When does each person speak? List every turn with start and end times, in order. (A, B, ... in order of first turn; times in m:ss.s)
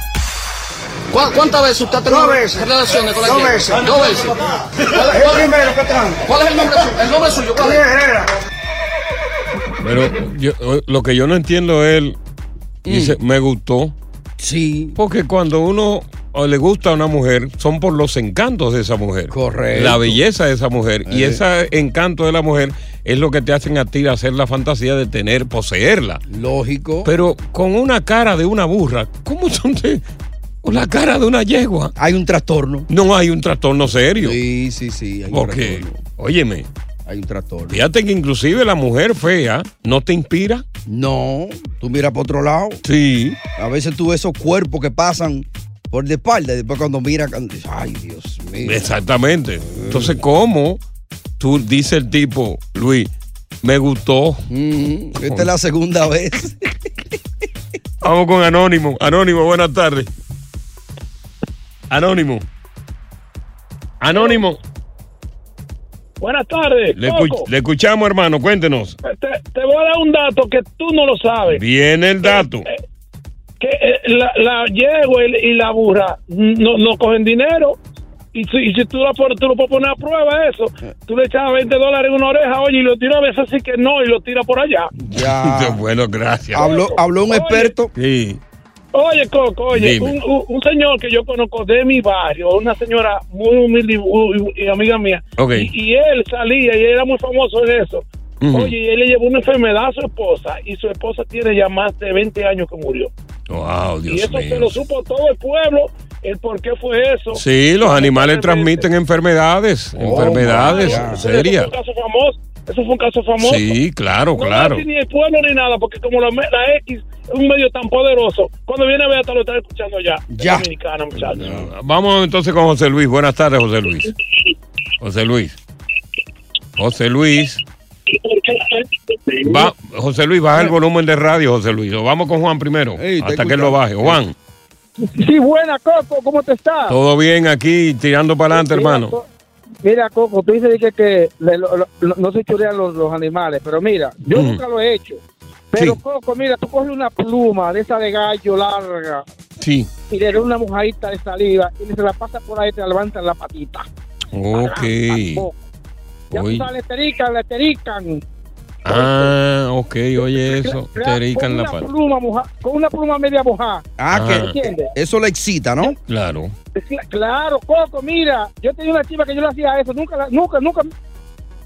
0:01.1-0:05.5 A
0:02.1-0:02.6 B
0:03.2-0:03.8 B
0:05.0-0:06.2 B
0:06.2-0:07.8 A
0:07.6-0:08.3 B
0:09.8-0:12.2 C
0:12.8-0:13.2 D
0:12.9-0:13.9 C
0:14.4-0:15.0 D
0:15.0-0:26.2 C
0:19.3-0:20.2 D
0:21.0-0:21.4 D
0:26.3-0:27.1 D
0:27.0-0:30.0 C
0:30.6-0:31.9 C
0:32.0-0:32.9 D
0:32.9-0:34.4 C
0:34.2-0:36.0 D
0:35.3-0:36.7 C
0:37.0-0:37.8 D
0:37.7-0:40.6 C
0:40.9-0:42.8 D
0:42.8-0:43.4 C
0:43.5-0:48.8 D
0:48.6-0:50.8 C
0:49.8-0:50.1 D
0:51.4-0:53.1 C
0:53.6-0:54.4 C
0:54.5-0:56.6 D
0:58.0-1:00.1 C
1:01.9-1:02.4 C
1:04.0-1:04.6 C
1:04.1-1:04.4 E
1:06.2-1:07.5 E
1:07.0-1:09.0 C
1:09.0-1:11.6 E
1:11.5-1:12.7 C
1:12.2-1:12.8 E
1:13.6-1:17.8 E
1:18.3-1:24.9 E
1:25.0-1:25.8 D
1:25.1-1:26.7 C
1:26.5-1:27.9 D
1:26.6-1:27.7 E
1:28.0-1:28.4 C
1:28.9-1:43.1 E
1:29.7-1:30.1 C
1:35.4-1:35.7 C
1:38.4-1:38.7 C
1:43.5-1:44.8 C
1:44.1-1:48.8 E
1:47.3-1:51.7 C
1:50.0-1:51.2 D
1:50.2-1:53.7 E
1:53.4-1:54.8 C
1:54.4-2:01.5 E
2:00.3-2:00.7 D
2:01.2-2:01.7 D
2:01.4-2:04.1 C
2:05.0-2:05.6 C
2:06.8-2:07.6 C
2:09.4-2:14.3 C
2:12.9-2:14.2 D
2:15.0-2:16.9 F
2:16.9-2:19.2 C
2:18.5-2:19.2 F
2:19.8-2:25.2 F
2:24.3-2:24.6 C
2:25.7-2:29.2 F
2:25.7-2:26.0 C
2:29.6-2:29.9 C
2:30.1-2:33.9 F
2:34.3-2:35.5 C
2:34.6-2:35.5 F
2:36.3-2:36.7 C
2:36.3-2:38.2 F
2:38.8-2:41.9 C
2:38.9-2:39.3 F
2:40.3-2:43.8 F
2:44.0-2:46.0 D
2:44.1-2:44.5 C
2:44.5-2:44.9 F
2:46.1-2:46.5 C
2:46.8-2:50.9 F